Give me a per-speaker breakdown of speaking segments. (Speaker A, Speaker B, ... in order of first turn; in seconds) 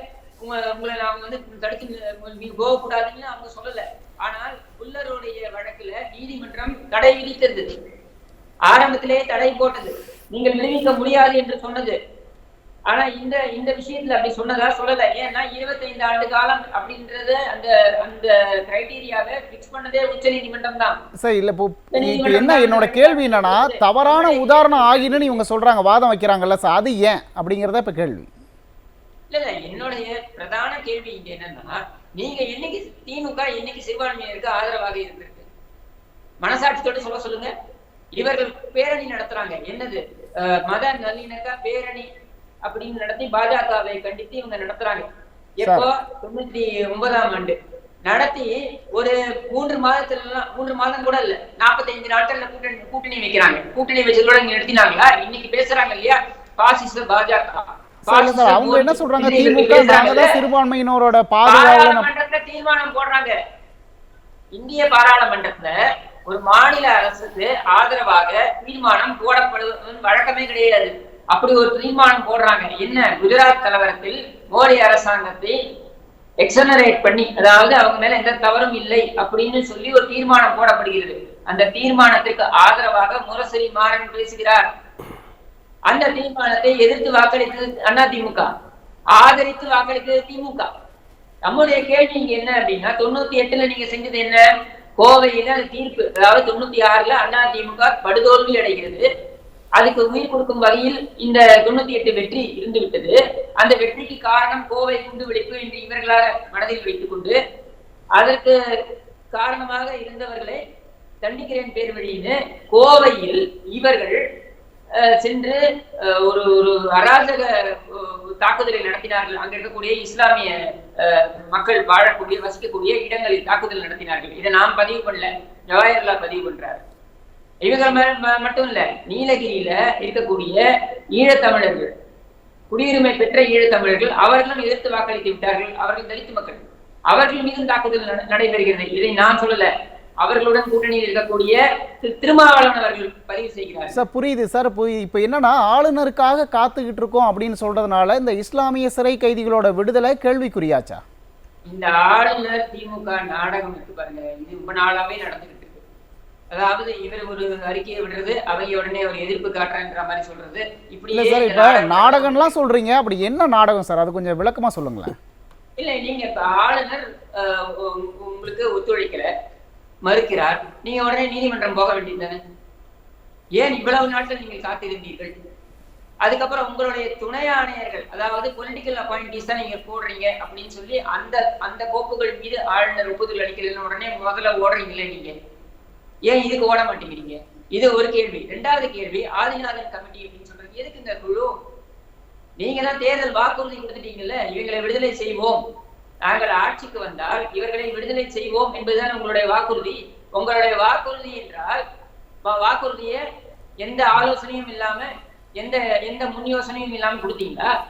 Speaker A: 0.4-7.7, 8.7-12.0, 12.9-20.9, 21.9-25.4, 29.3-35.5, 36.4-37.5, 38.1-42.1, 42.7-45.1, 45.6-47.6, 48.1-60.4, 61.5-63.3, 64.5-65.7, 66.3-75.6, 76.4-84.6, 85.9-88.5, 89.1-90.7, 91.5-94.4, 95.0-99.0, 99.8-107.4, 108.2-108.6, 109.3-110.6, 111.2-114.2, 115.0-126.8, 127.7-130.6, 131.1-131.9, 132.7-139.7, 140.2-144.0, 151.7-155.8, 156.5-162.5, 165.8-169.3, 170.1-172.4, 173.6-175.3, 176.2-185.3, 186.3-191.5, 192.6-195.6, 196.3-201.8, 202.4-203.2, 203.8-207.7
Speaker B: 21.2-28.2, 45.6-45.9, 58.0-62.1, 143.9-151.0, 161.1-165.2